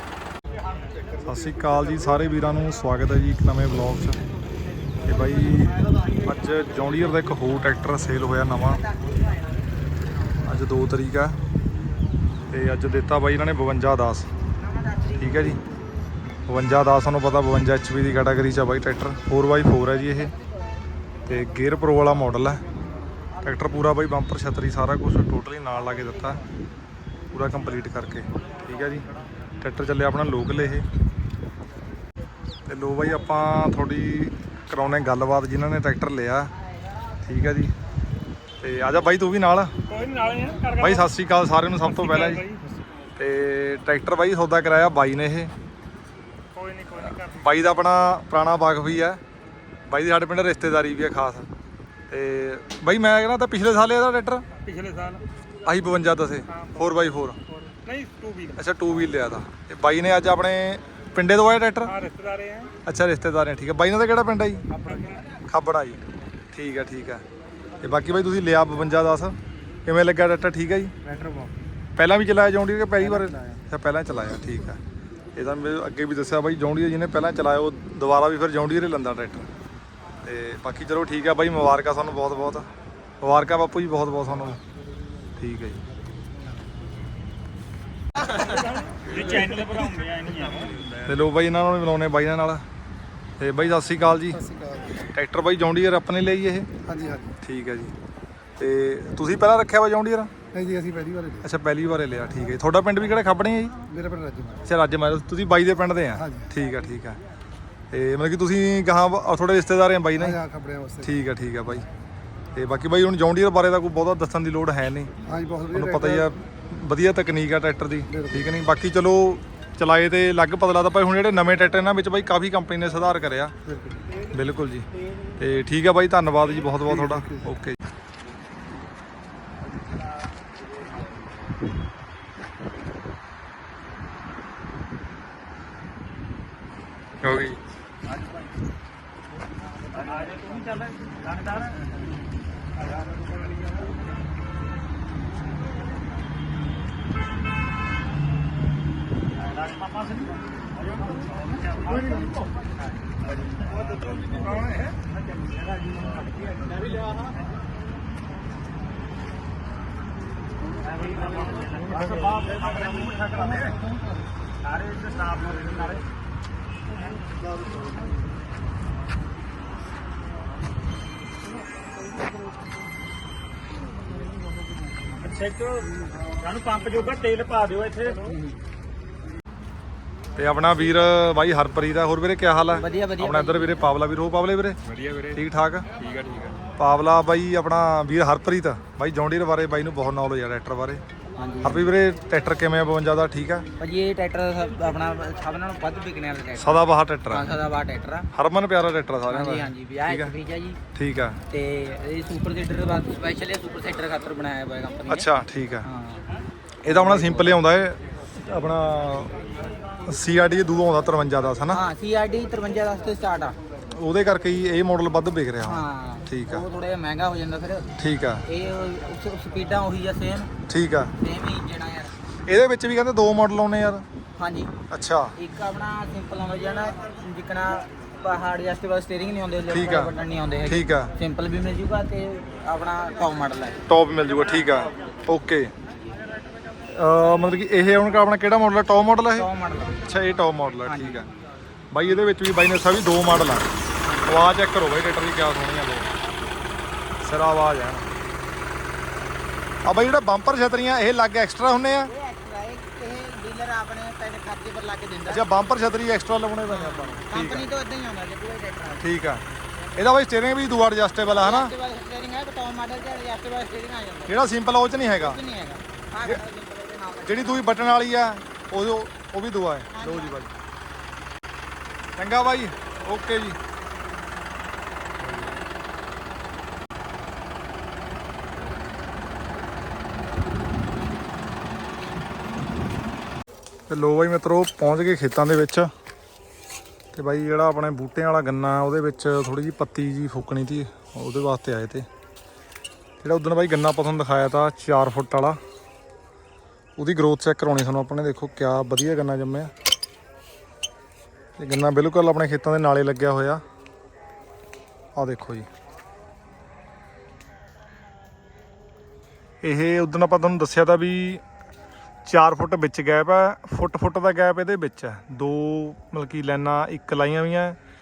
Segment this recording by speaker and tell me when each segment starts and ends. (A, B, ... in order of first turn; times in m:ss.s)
0:01.2-0:04.2 A
0:05.0-0:08.8 A
0:10.4-0:11.4 A
0:12.5-0:14.3 A
0:15.1-0:15.6 A
0:16.4-0:20.3 A
0:21.2-0:22.6 A
0:23.4-0:26.4 A
0:27.3-0:29.0 A
0:29.6-0:30.9 A
0:32.7-0:36.5 A
0:37.2-0:37.7 A
0:38.6-0:39.7 A
0:39.9-0:41.0 B
0:40.8-0:42.5 A
0:41.8-0:42.6 B
0:43.2-0:45.5 A
0:46.5-0:47.5 B
0:47.0-0:49.2 A
0:49.9-0:51.5 A
0:52.1-0:54.4 A
0:54.6-0:55.2 B
0:55.6-0:57.4 A
0:57.7-0:58.6 B
0:58.6-1:01.9 A
1:01.9-1:02.7 B
1:02.8-1:04.7 A
1:04.7-1:05.2 C
1:04.8-1:05.2 B
1:05.3-1:07.2 A
1:07.8-1:10.9 A
1:11.0-1:11.5 C
1:12.0-1:14.8 A
1:13.1-1:13.6 C
1:15.3-1:19.5 A
1:20.2-1:22.7 A
1:23.2-1:24.6 A
1:25.4-1:25.8 A
1:28.4-1:30.9 B
1:31.0-1:32.6 A
1:33.4-1:36.7 A
1:34.5-1:34.9 D
1:36.8-1:37.4 D
1:37.4-1:37.9 A
1:38.6-1:40.3 A
1:40.5-1:41.4 D
1:41.4-1:43.8 A
1:43.9-1:44.6 D
1:44.6-1:47.2 A
1:47.9-1:50.4 A
1:50.2-1:51.0 D
1:51.0-1:51.9 A
1:52.5-1:55.1 A
1:55.2-1:56.2 D
1:55.7-2:03.5 A
1:58.2-1:58.4 D
2:03.7-2:04.0 D
2:04.3-2:07.8 A
2:17.2-2:17.6 A
2:20.2-2:21.6 B
2:29.6-2:30.2 B
2:31.4-2:32.0 B
2:33.9-2:35.0 A
2:35.4-2:36.6 B
2:41.0-2:43.5 B
2:42.0-2:43.1 C
2:44.7-2:46.0 B
2:55.1-2:58.3 B
2:58.2-2:58.5 C
3:00.4-3:05.9 A
3:02.7-3:03.9 C
3:05.0-3:05.4 B
3:06.0-3:06.6 B
3:06.7-3:11.0 A
3:11.4-3:11.9 C
3:11.6-3:13.6 A
3:13.8-3:18.3 C
3:16.6-3:17.5 A
3:18.3-3:20.3 A
3:19.3-3:20.8 C
3:20.9-3:21.4 A
3:21.5-3:25.3 C
3:25.1-3:25.9 A
3:25.8-3:26.2 C
3:26.8-3:27.6 C
3:26.8-3:29.4 A
3:30.0-3:31.8 A
3:31.7-3:33.6 C
3:33.9-3:36.6 A
3:35.6-3:37.9 C
3:38.0-3:38.4 A
3:38.4-3:40.5 C
3:40.7-3:41.1 A
3:41.2-3:42.1 C
3:42.4-3:44.0 A
3:44.4-3:44.7 C
3:44.9-3:45.3 A
3:45.4-3:53.8 C
3:49.7-3:51.1 A
3:53.9-3:55.7 A
3:56.9-3:59.5 A
3:59.3-4:00.0 C
4:00.0-4:01.3 A
4:00.8-4:01.3 C
4:01.9-4:03.7 A
4:04.0-4:04.4 C
4:04.2-4:06.1 A
4:07.2-4:08.1 A
4:09.8-4:12.1 A
4:12.1-4:15.6 C
4:15.3-4:17.7 A
4:16.6-4:19.2 C
4:19.0-4:19.4 A
4:20.0-4:21.7 A
4:21.2-4:24.4 C
4:24.3-4:25.4 A
4:25.2-4:27.8 C
4:27.2-4:30.5 A
4:29.9-4:30.4 C
4:32.2-4:33.6 A
4:43.9-4:45.9 A
4:47.1-4:52.1 A
4:53.2-4:55.6 A
4:57.0-4:59.7 A
5:01.6-5:03.6 A
5:05.1-5:05.7 A
5:09.6-5:11.4 A
5:12.2-5:17.8 A